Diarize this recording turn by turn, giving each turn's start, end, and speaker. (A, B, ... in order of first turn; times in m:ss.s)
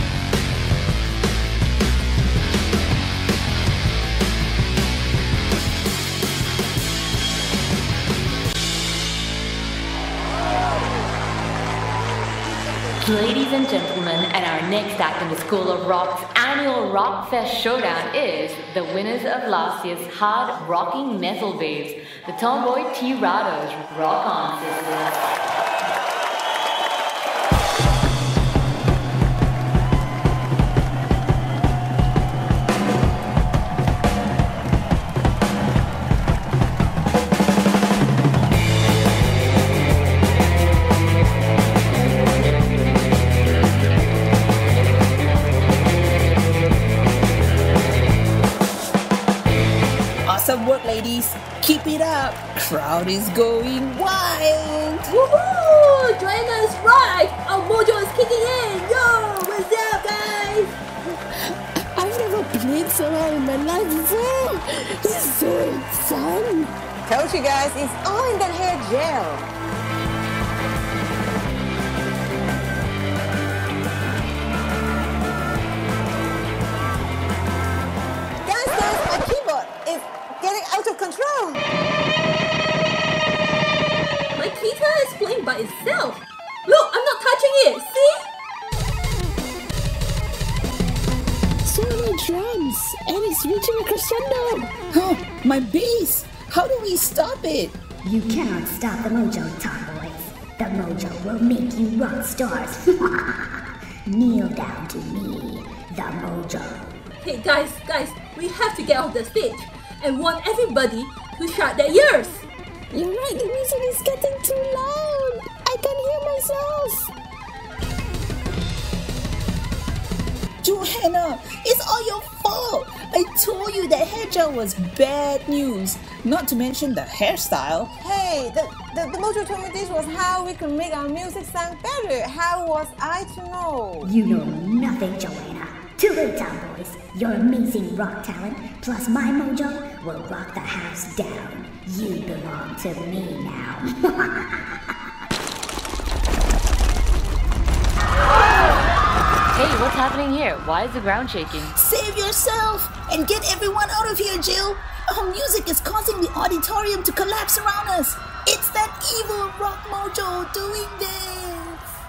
0:13.0-0:25.1 A
0:50.2-0:55.1 B
0:55.1-1:00.7 C
1:01.4-1:06.7 D
1:07.0-1:09.5 E
1:18.4-1:21.6 E
1:24.4-1:28.3 C
1:31.6-1:34.7 D
1:34.9-1:37.8 B
1:38.0-1:43.5 F
1:44.1-1:46.9 F
1:47.2-1:52.4 C
1:52.9-1:57.1 D
2:00.6-2:07.9 B
2:08.0-2:14.1 E
2:14.0-2:24.3 F
2:29.5-2:31.7 A
2:31.7-2:41.8 B